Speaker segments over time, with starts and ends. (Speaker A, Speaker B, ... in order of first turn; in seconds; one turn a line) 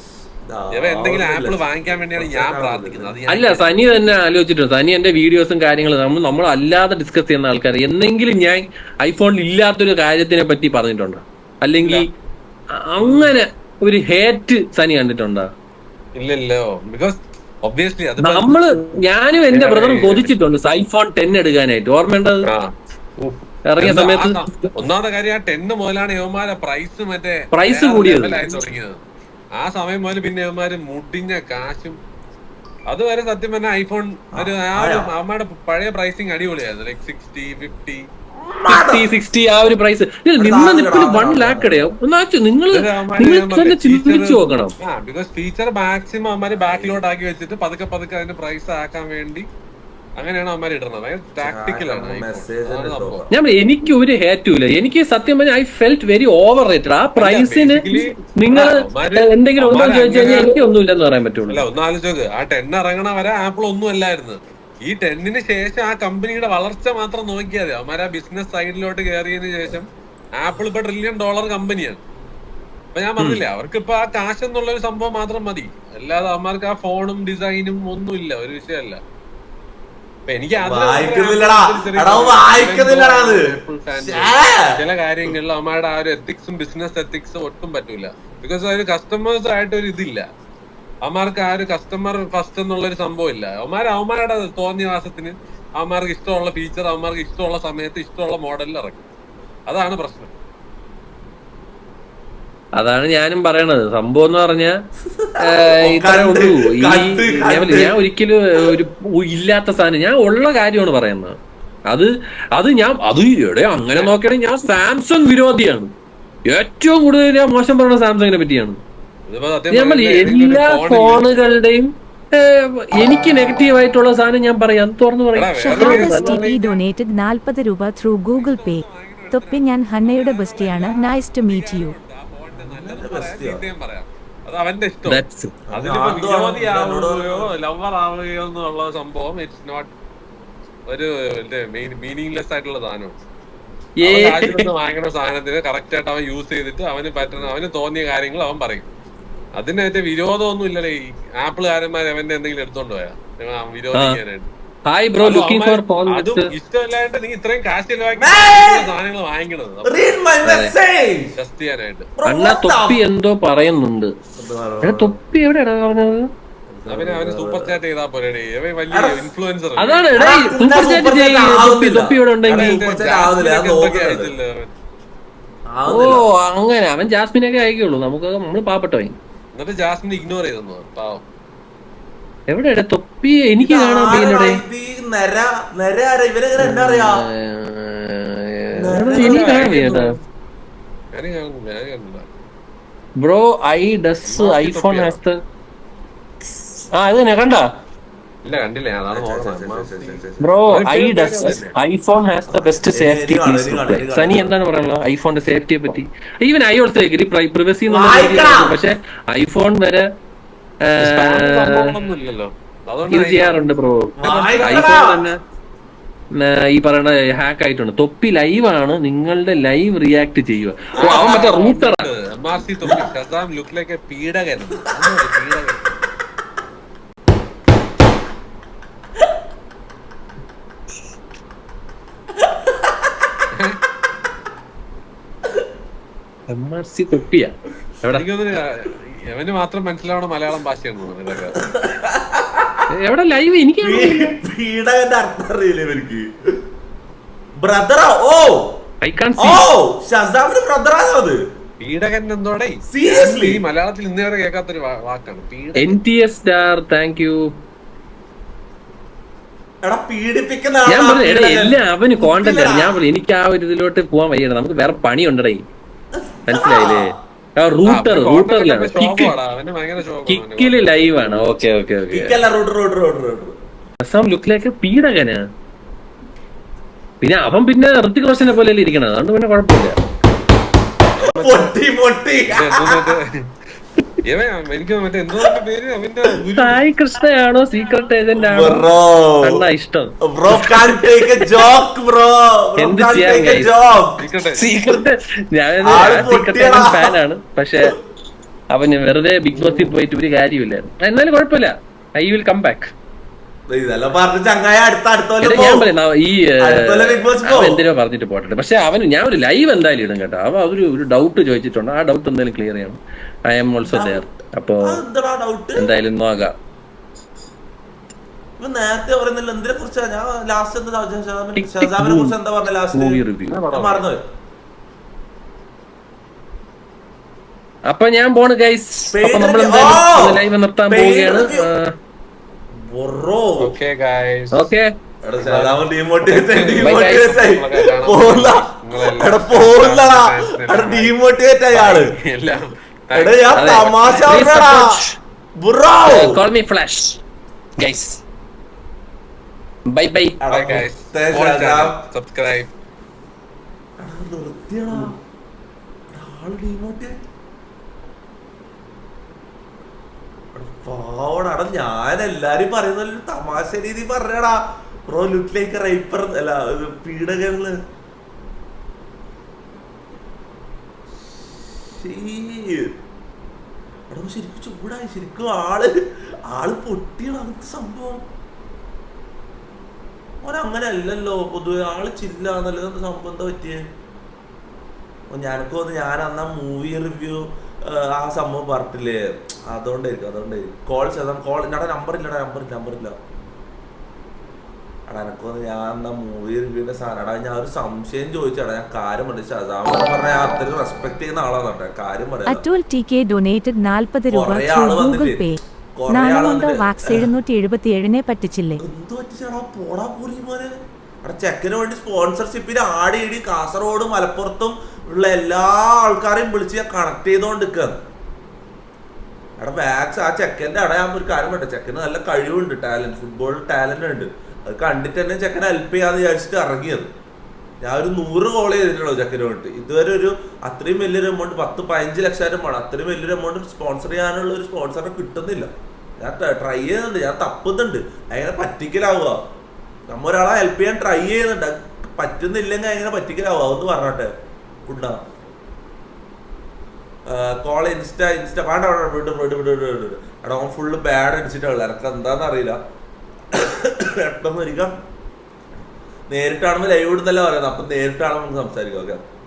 Speaker A: 0.5-3.2
Speaker B: 0.7-3.7
Speaker C: 3.3-12.0
Speaker C: 12.7-15.5
Speaker B: 13.0-13.3
Speaker B: 16.2-18.6
Speaker C: 18.2-22.4
Speaker B: 19.5-20.3
Speaker B: 22.4-29.0
Speaker C: 23.7-24.7
Speaker C: 27.5-28.5
Speaker B: 29.6-32.0
Speaker B: 32.9-38.0
Speaker A: 34.4-35.1
Speaker A: 38.4-39.1
Speaker C: 38.7-44.7
Speaker A: 40.4-41.8
Speaker B: 42.7-49.5
Speaker A: 46.5-47.0
Speaker B: 50.2-53.2
Speaker A: 51.4-53.3
Speaker C: 53.3-61.6
Speaker B: 57.2-60.5
Speaker B: 61.5-72.0
Speaker B: 72.9-79.0
Speaker B: 80.3-90.3
Speaker A: 80.6-84.8
Speaker B: 91.0-99.0
Speaker B: 99.7-100.3
Speaker C: 102.8-104.7
Speaker A: 105.1-108.0
Speaker C: 105.4-111.3
Speaker C: 111.9-115.9
Speaker C: 116.5-118.8
Speaker B: 119.3-121.3
Speaker C: 119.7-126.4
Speaker B: 125.3-126.8
Speaker D: 125.6-131.9
Speaker B: 128.3-139.9
Speaker A: 132.5-133.6
Speaker C: 135.1-135.5
Speaker A: 135.7-137.5
Speaker B: 140.9-143.2
Speaker C: 144.0-144.6
Speaker B: 144.0-148.9
Speaker B: 149.6-154.5
Speaker C: 153.9-154.2
Speaker C: 154.9-156.5
Speaker B: 155.2-160.2
Speaker A: 158.2-158.9
Speaker A: 159.8-161.3
Speaker C: 160.4-160.7
Speaker B: 161.4-162.1
Speaker A: 162.2-163.0
Speaker C: 162.2-164.1
Speaker A: 164.3-165.2
Speaker C: 164.8-166.3
Speaker A: 166.7-167.8
Speaker B: 166.9-170.2
Speaker A: 168.9-169.2
Speaker C: 169.8-172.8
Speaker A: 170.2-174.3
Speaker B: 172.5-174.7
Speaker A: 175.7-176.2
Speaker C: 175.9-179.1
Speaker B: 179.5-181.2
Speaker C: 182.5-184.6
Speaker A: 183.6-187.2
Speaker C: 186.6-190.1
Speaker A: 188.8-190.2
Speaker B: 189.2-190.0
Speaker B: 191.1-192.3
Speaker C: 193.2-195.4
Speaker B: 194.2-195.2
Speaker C: 196.6-197.7
Speaker B: 198.4-201.7
Speaker A: 199.1-200.6
Speaker C: 200.4-210.0
Speaker A: 202.5-204.5
Speaker A: 207.9-208.8
Speaker C: 210.9-211.9
Speaker B: 211.0-213.7
Speaker C: 213.1-215.4
Speaker A: 214.2-215.2
Speaker B: 214.3-214.9
Speaker C: 216.3-222.1
Speaker B: 221.0-225.9
Speaker A: 221.0-221.6
Speaker C: 236.5-238.2
Speaker B: 238.1-241.6
Speaker A: 241.6-242.8
Speaker C: 242.9-244.3
Speaker A: 243.8-246.3
Speaker A: 247.6-248.7
Speaker C: 249.0-249.6
Speaker A: 249.4-251.4
Speaker B: 251.8-255.9
Speaker A: 252.9-253.6
Speaker C: 255.8-257.4
Speaker A: 259.8-263.0
Speaker C: 260.9-265.6
Speaker A: 266.2-267.1
Speaker C: 266.5-269.3
Speaker B: 267.8-270.9
Speaker C: 270.3-272.4
Speaker A: 272.1-273.5
Speaker C: 274.0-275.4
Speaker C: 277.2-279.9
Speaker B: 281.2-281.7
Speaker A: 281.3-283.1
Speaker B: 282.5-283.3
Speaker B: 284.3-286.8
Speaker C: 286.5-288.8
Speaker A: 288.4-289.6
Speaker C: 289.4-291.1
Speaker A: 290.2-294.2
Speaker C: 292.8-293.7
Speaker B: 294.2-294.7
Speaker C: 294.6-297.9
Speaker A: 295.9-297.1
Speaker C: 298.7-302.9
Speaker A: 299.5-299.9
Speaker A: 303.7-305.9
Speaker C: 305.4-315.0
Speaker A: 306.6-307.8
Speaker A: 313.8-315.9
Speaker C: 315.8-316.5
Speaker A: 318.6-324.2
Speaker C: 321.6-322.3
Speaker C: 322.9-323.6
Speaker B: 323.5-324.1
Speaker C: 327.9-331.9
Speaker A: 329.1-331.7
Speaker A: 332.9-333.8
Speaker B: 333.6-334.7
Speaker C: 334.5-334.9
Speaker A: 335.2-342.1
Speaker B: 335.4-341.1
Speaker C: 336.8-337.4
Speaker B: 341.7-343.6
Speaker A: 343.1-344.9
Speaker C: 343.5-345.2
Speaker A: 345.6-346.4
Speaker C: 346.0-347.2
Speaker C: 347.8-348.2
Speaker C: 349.9-350.8
Speaker A: 350.4-352.0
Speaker B: 350.5-352.7
Speaker A: 354.0-355.1
Speaker A: 356.1-357.1
Speaker A: 360.5-367.7
Speaker A: 371.2-372.9
Speaker A: 374.1-375.9
Speaker A: 376.5-378.2
Speaker A: 380.4-383.8
Speaker A: 385.3-393.1
Speaker A: 395.1-402.6
Speaker D: 402.5-408.8
Speaker A: 404.3-405.4
Speaker A: 406.0-407.3
Speaker A: 408.8-410.7
Speaker A: 411.2-417.9
Speaker A: 419.6-427.1
Speaker A: 427.8-439.4
Speaker A: 440.1-444.3
Speaker A: 444.9-445.2
Speaker A: 447.3-452.8
Speaker A: 453.5-454.9
Speaker A: 456.3-459.2